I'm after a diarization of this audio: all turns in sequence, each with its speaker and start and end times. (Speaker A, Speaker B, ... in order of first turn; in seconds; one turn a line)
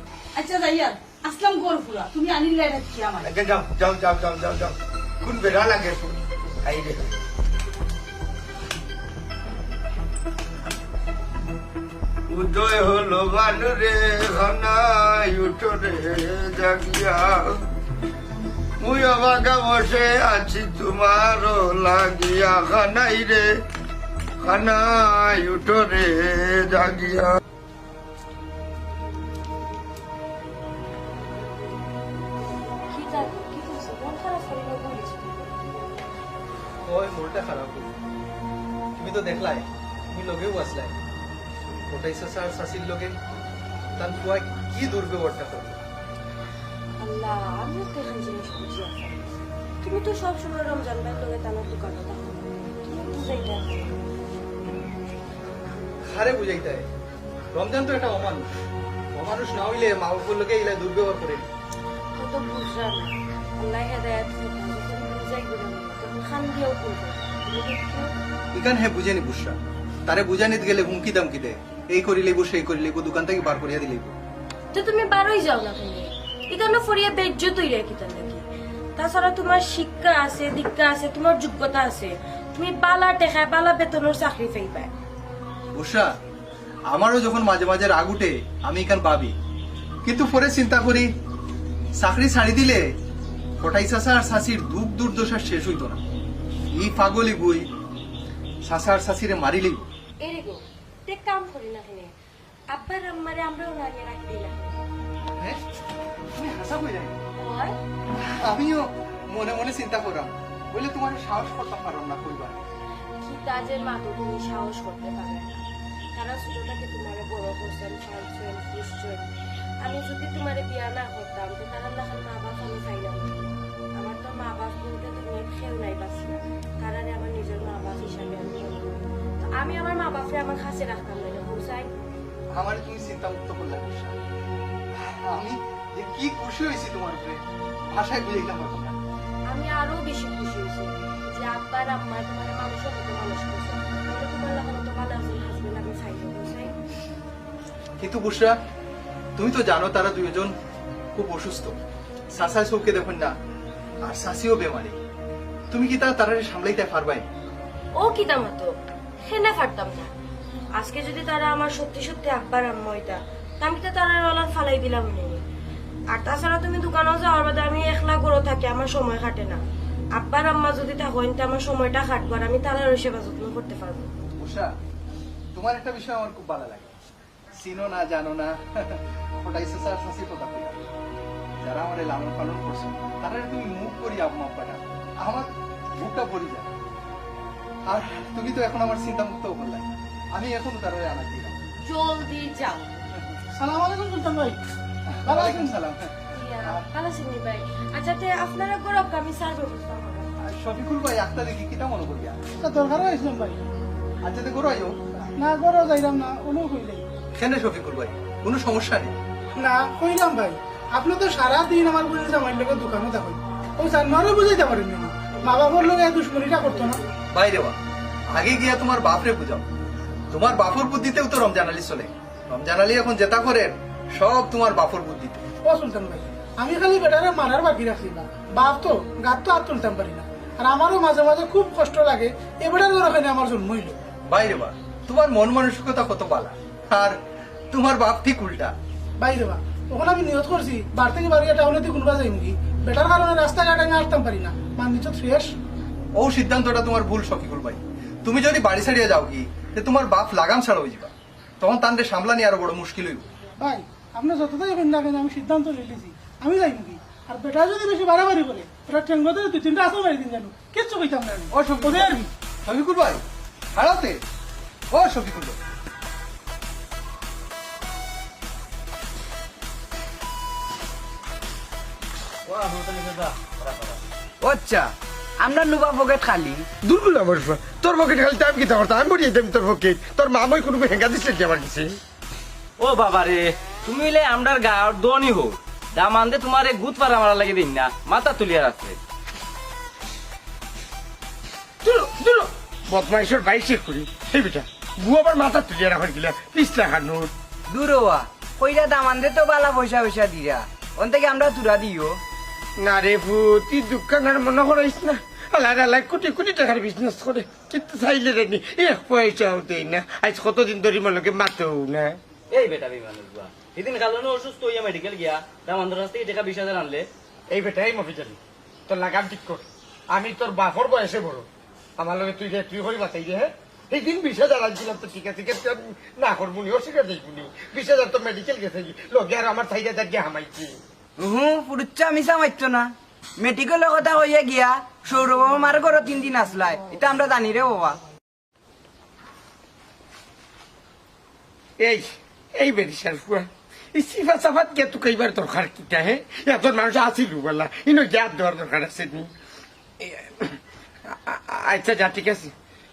Speaker A: 0.4-3.2
Speaker B: 3.2-7.1
Speaker B: 12.3-17.4
Speaker B: 18.8-23.5
Speaker B: 24.4-27.4
Speaker C: 32.9-35.5
Speaker D: 36.9-37.9
Speaker D: 39.0-41.0
Speaker D: 41.7-43.2
Speaker D: 44.0-45.8
Speaker C: 47.0-49.2
Speaker C: 49.8-54.0
Speaker D: 56.0-56.9
Speaker D: 57.5-58.5
Speaker D: 59.1-61.5
Speaker C: 62.2-68.1
Speaker D: 68.5-69.5
Speaker D: 70.1-74.1
Speaker C: 74.7-78.4
Speaker C: 79.0-84.9
Speaker D: 85.8-86.1
Speaker D: 86.9-89.3
Speaker D: 90.0-91.1
Speaker D: 92.0-92.8
Speaker D: 93.6-96.0
Speaker D: 96.7-97.7
Speaker D: 98.7-99.9
Speaker C: 100.2-102.1
Speaker C: 102.7-104.8
Speaker D: 106.4-107.2
Speaker C: 107.4-107.7
Speaker D: 108.4-112.6
Speaker C: 113.2-115.6
Speaker C: 116.2-119.3
Speaker C: 119.8-131.9
Speaker D: 132.5-134.2
Speaker D: 134.9-139.0
Speaker C: 139.5-146.7
Speaker D: 148.0-148.6
Speaker D: 149.4-150.5
Speaker D: 151.2-151.8
Speaker D: 152.3-153.3
Speaker D: 154.0-155.0
Speaker D: 155.7-157.2
Speaker C: 158.0-158.7
Speaker C: 159.3-160.1
Speaker C: 160.8-165.4
Speaker C: 166.1-169.6
Speaker C: 170.2-174.1
Speaker D: 174.4-174.7
Speaker D: 175.6-176.9
Speaker D: 177.6-180.8
Speaker D: 181.6-186.7
Speaker D: 187.9-191.6
Speaker C: 191.8-193.1
Speaker E: 193.6-194.6
Speaker D: 195.1-196.1
Speaker E: 195.3-195.7
Speaker C: 196.3-200.3
Speaker D: 200.4-202.4
Speaker E: 202.6-203.6
Speaker D: 204.2-205.0
Speaker E: 205.4-207.0
Speaker D: 207.3-209.2
Speaker E: 209.6-217.1
Speaker D: 217.3-217.8
Speaker D: 218.3-219.7
Speaker D: 220.3-225.4
Speaker E: 225.7-234.0
Speaker D: 234.3-237.2
Speaker D: 237.7-238.8
Speaker E: 239.2-245.6
Speaker D: 246.2-253.3
Speaker E: 253.6-262.3
Speaker D: 261.5-263.2
Speaker D: 263.7-264.2
Speaker D: 264.9-265.6
Speaker F: 272.5-274.0
Speaker G: 274.4-274.9
Speaker G: 275.4-276.7
Speaker H: 276.8-281.9
Speaker F: 282.8-289.0
Speaker H: 291.8-297.3
Speaker G: 297.7-302.2
Speaker H: 302.8-312.2
Speaker F: 312.5-317.1
Speaker H: 317.5-321.5
Speaker H: 322.0-330.8
Speaker G: 331.2-338.0
Speaker H: 341.8-349.3
Speaker H: 350.0-350.6
Speaker H: 351.3-352.5